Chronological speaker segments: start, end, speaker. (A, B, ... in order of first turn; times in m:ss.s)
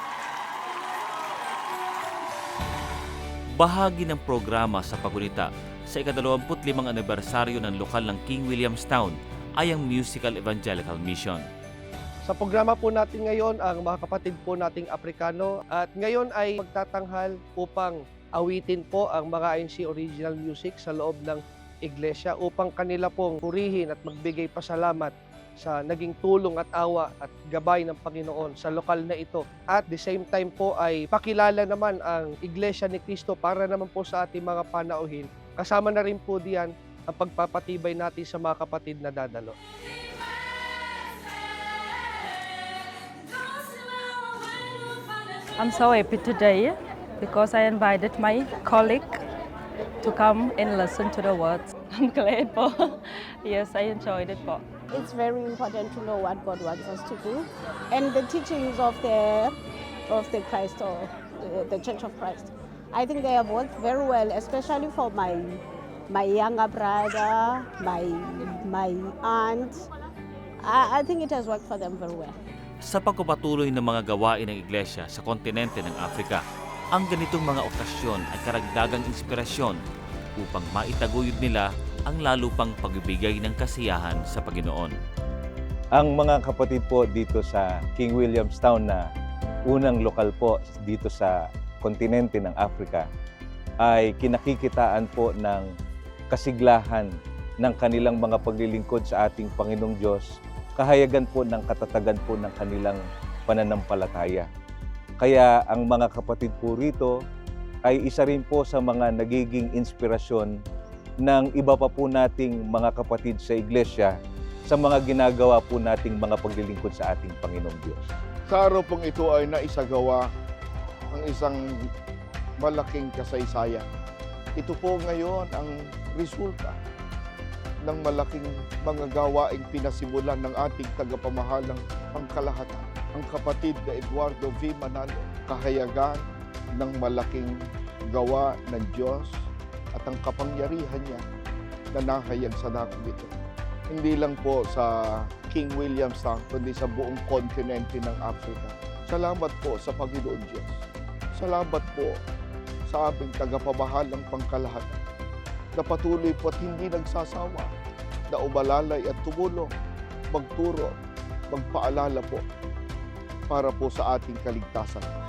0:03.6-0:11.5 A
0:12.2-0:39.6 B
0:45.6-0:49.2 C
0:50.0-0:54.6 C
0:54.9-0:59.5 D
1:00.1-1:05.5 D
1:06.1-1:09.7 D
1:10.8-1:12.3 D
1:12.8-1:16.4 A
1:16.9-1:19.8 A
1:20.4-1:24.9 A
1:26.0-1:29.0 E
1:29.7-1:33.1 E
1:33.8-1:35.6 E
1:36.3-1:37.1 E
1:37.6-1:40.2 E
1:40.8-1:44.5 E
1:45.2-1:47.1 E
1:47.9-1:50.5 E
1:51.2-1:54.1 E
1:54.7-1:58.0 E
1:58.5-2:00.2 F
2:01.1-2:01.6 F
2:02.6-2:03.8 F
2:04.6-2:06.8 F
2:07.8-2:16.2 F
2:16.8-2:17.5 F
2:18.1-2:19.3 F
2:20.0-2:21.2 F
2:21.9-2:23.3 F
2:23.9-2:30.8 F
2:31.4-2:32.2 F
2:32.9-2:35.0 F
2:35.8-2:37.7 F
2:38.3-2:39.7 F
2:40.3-2:40.9 F
2:41.5-2:42.4 F
2:43.5-2:45.1 F